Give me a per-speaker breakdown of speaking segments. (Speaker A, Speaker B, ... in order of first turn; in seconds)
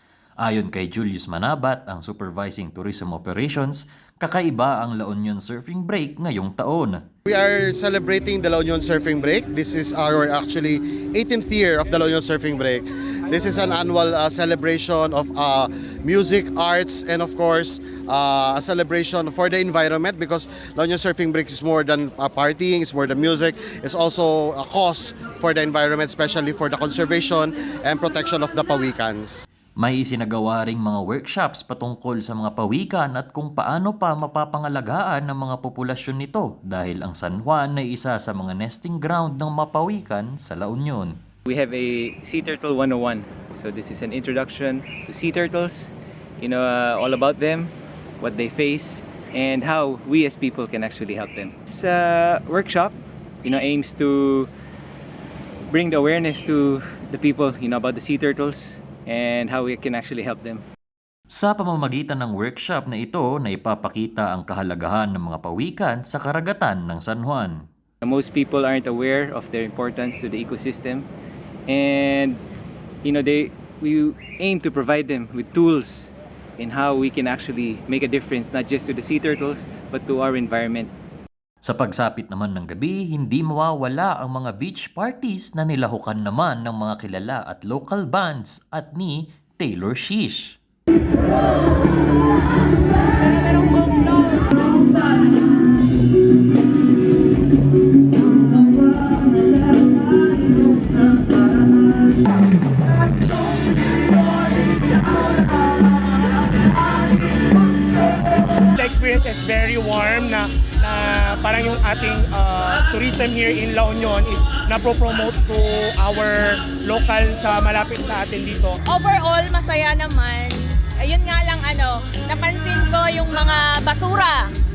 Speaker A: 0.4-7.0, 29.8-41.2, 61.3-67.7, 81.6-90.6
Speaker B: 7.3-29.5
Speaker C: 41.5-54.5, 55.7-60.6, 68.0-71.1, 71.7-72.4, 73.0-80.9
Speaker D: 108.8-118.8
Speaker E: 118.9-124.5